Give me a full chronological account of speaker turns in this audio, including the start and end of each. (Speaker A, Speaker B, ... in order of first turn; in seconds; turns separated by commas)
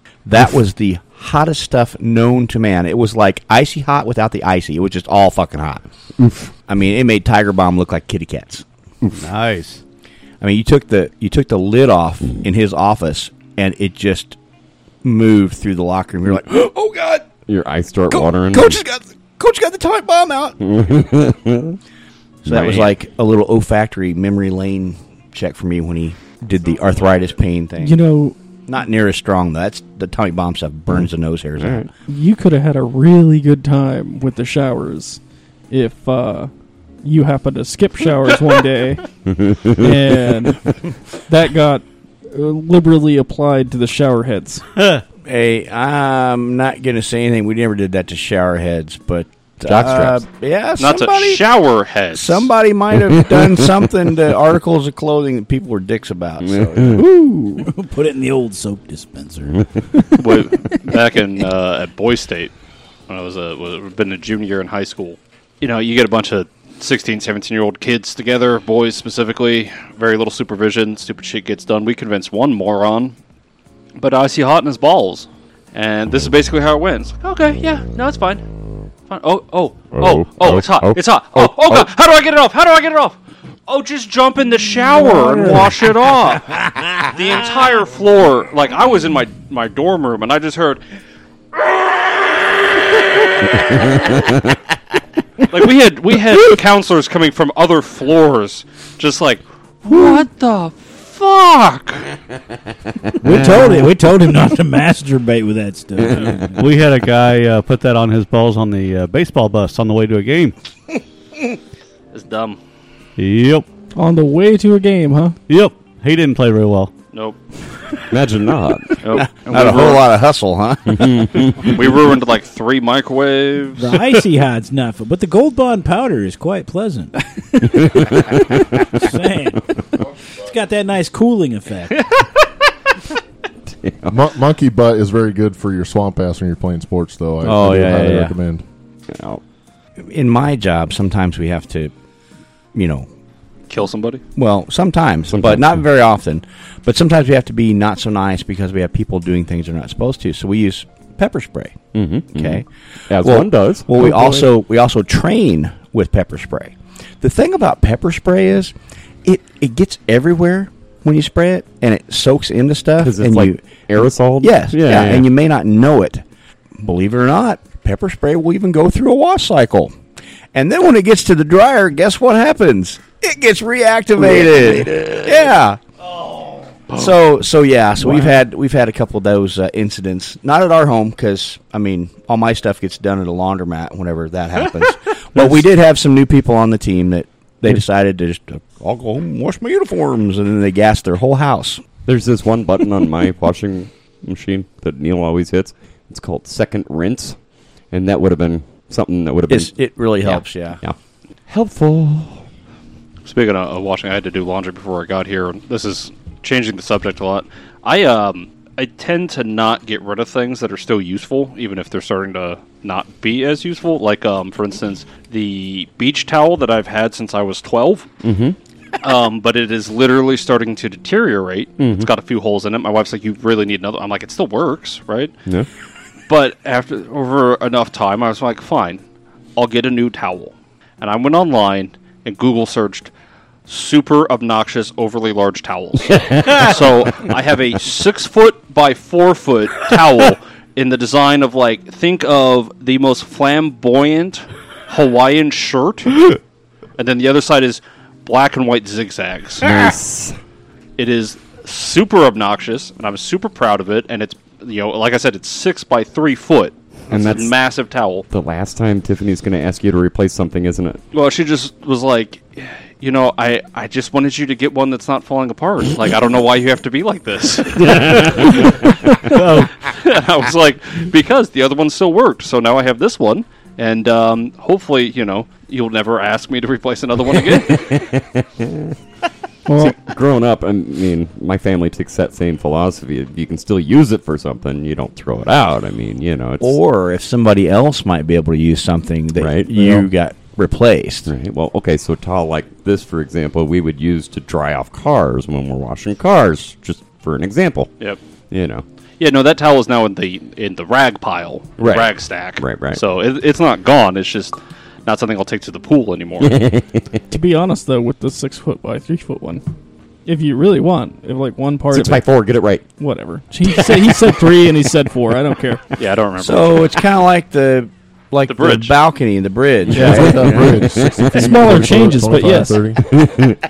Speaker A: 0.2-5.8, Speaker B: 6.2-6.5, Speaker A: 6.7-8.7, Speaker C: 9.1-9.8, Speaker A: 10.4-14.4, Speaker A: 15.0-17.3, Speaker B: 17.5-18.8, Speaker A: 18.1-20.7, Speaker B: 20.6-21.8, Speaker A: 22.4-28.1, Speaker B: 22.5-22.9, Speaker D: 27.8-28.4, Speaker A: 28.7-31.9, Speaker B: 31.6-31.9, Speaker D: 32.1-36.5, Speaker D: 37.0-39.1, Speaker B: 39.3-39.9, Speaker D: 39.6-44.6, Speaker A: 44.8-51.5, Speaker B: 49.6-50.2, Speaker E: 50.8-52.5, Speaker A: 52.1-57.0, Speaker B: 53.0-53.7, Speaker B: 56.4-57.0, Speaker F: 56.9-59.7, Speaker E: 60.2-62.5, Speaker E: 63.1-73.2, Speaker E: 74.0-78.5, Speaker E: 79.1-90.8, Speaker B: 79.9-81.9, Speaker F: 85.1-85.6, Speaker B: 85.5-85.7, Speaker B: 93.6-94.4, Speaker E: 95.5-102.1, Speaker F: 103.2-106.6, Speaker B: 106.1-106.4, Speaker C: 106.6-110.5, Speaker E: 112.1-112.6, Speaker C: 113.2-113.7, Speaker D: 114.0-115.4, Speaker C: 115.5-116.9, Speaker E: 117.1-117.4, Speaker B: 118.1-119.0, Speaker E: 119.0-120.1, Speaker A: 119.1-121.6, Speaker B: 120.9-121.7, Speaker E: 121.6-124.2, Speaker F: 123.8-128.3, Speaker B: 127.9-128.6, Speaker F: 128.9-129.6, Speaker F: 130.4-132.1, Speaker B: 133.7-134.2, Speaker G: 134.1-138.6, Speaker A: 137.4-138.3, Speaker B: 139.1-139.4, Speaker A: 140.0-141.9, Speaker A: 142.7-143.1, Speaker E: 143.7-144.2, Speaker A: 144.4-152.7, Speaker B: 145.3-145.8, Speaker B: 151.9-154.3, Speaker A: 153.2-158.7, Speaker D: 154.0-154.4, Speaker A: 159.2-166.2, Speaker B: 163.0-165.3, Speaker A: 166.8-169.9, Speaker A: 170.5-175.8, Speaker B: 174.2-175.2, Speaker A: 176.9-191.8, Speaker B: 185.4-185.6, Speaker B: 192.1-197.4, Speaker B: 197.9-202.5, Speaker A: 199.5-200.8, Speaker E: 203.2-218.1, Speaker B: 218.2-218.6, Speaker E: 219.0-225.3, Speaker B: 221.8-222.1, Speaker E: 226.3-229.0, Speaker E: 229.6-233.1, Speaker E: 233.7-246.4, Speaker E: 247.0-249.8, Speaker B: 249.6-250.4, Speaker E: 251.0-258.3, Speaker B: 257.1-257.5, Speaker B: 258.3-261.0, Speaker E: 261.1-268.9, Speaker B: 267.8-269.3, Speaker C: 269.3-269.7, Speaker E: 269.8-278.0, Speaker B: 277.7-279.0, Speaker D: 279.7-280.0, Speaker B: 279.8-286.8, Speaker A: 286.6-291.3, Speaker B: 289.4-290.1, Speaker B: 291.3-297.9, Speaker B: 298.5-298.8, Speaker E: 299.2-306.5, Speaker B: 301.8-303.0, Speaker B: 306.4-307.2, Speaker D: 307.3-309.6, Speaker D: 310.3-312.3, Speaker B: 311.9-312.9, Speaker D: 313.0-315.8, Speaker B: 313.7-314.2, Speaker E: 316.0-317.0, Speaker A: 316.4-320.7, Speaker E: 318.5-319.0, Speaker B: 319.9-321.8, Speaker G: 319.9-323.1, Speaker D: 321.3-322.9, Speaker B: 323.1-323.6